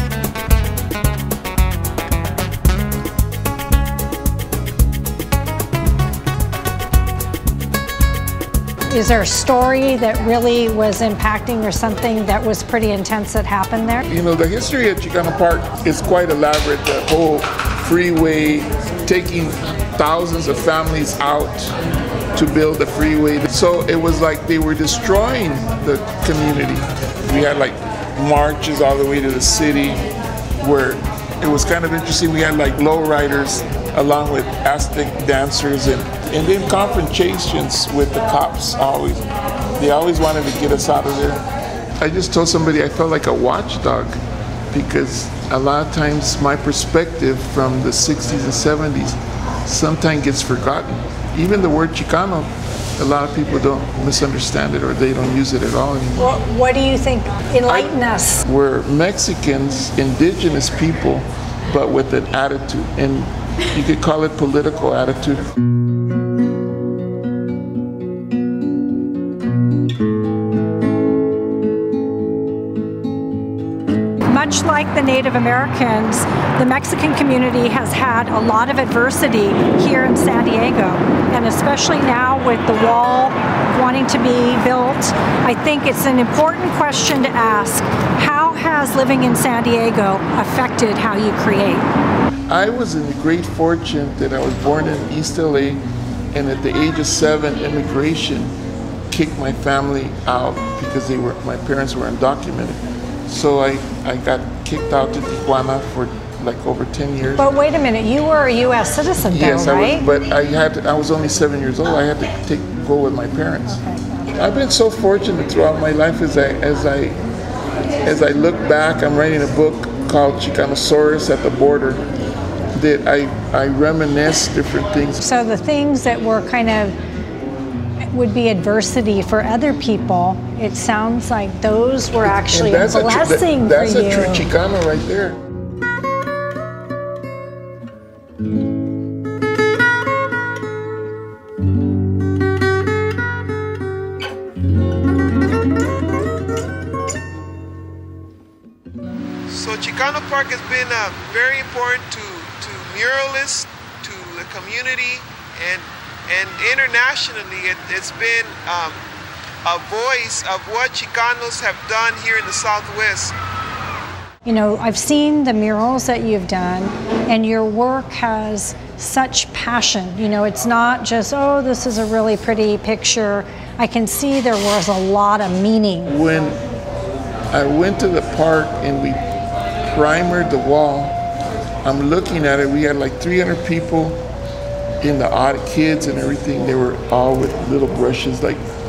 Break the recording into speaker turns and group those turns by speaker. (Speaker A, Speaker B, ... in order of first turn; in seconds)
Speaker A: 8.9-14.0, 56.2-58.4, 74.2-91.9, 107.4-110.0, 113.7-114.3, 125.2-127.0, 128.1-134.4, 164.4-176.1
Speaker B: 14.1-21.8, 22.3-30.0, 30.6-39.2, 39.8-41.4, 42.0-44.2, 44.7-56.4, 57.7-65.5, 92.5-95.8, 96.3-98.5, 99.1-107.5, 109.2-113.8, 114.3-117.2, 118.0-122.0, 122.7-125.2, 132.2-135.4, 176.1-176.6, 177.5-179.2, 179.8-181.2, 181.8-184.2, 185.0-188.6
Speaker C: 149.5-159.0, 159.6-163.3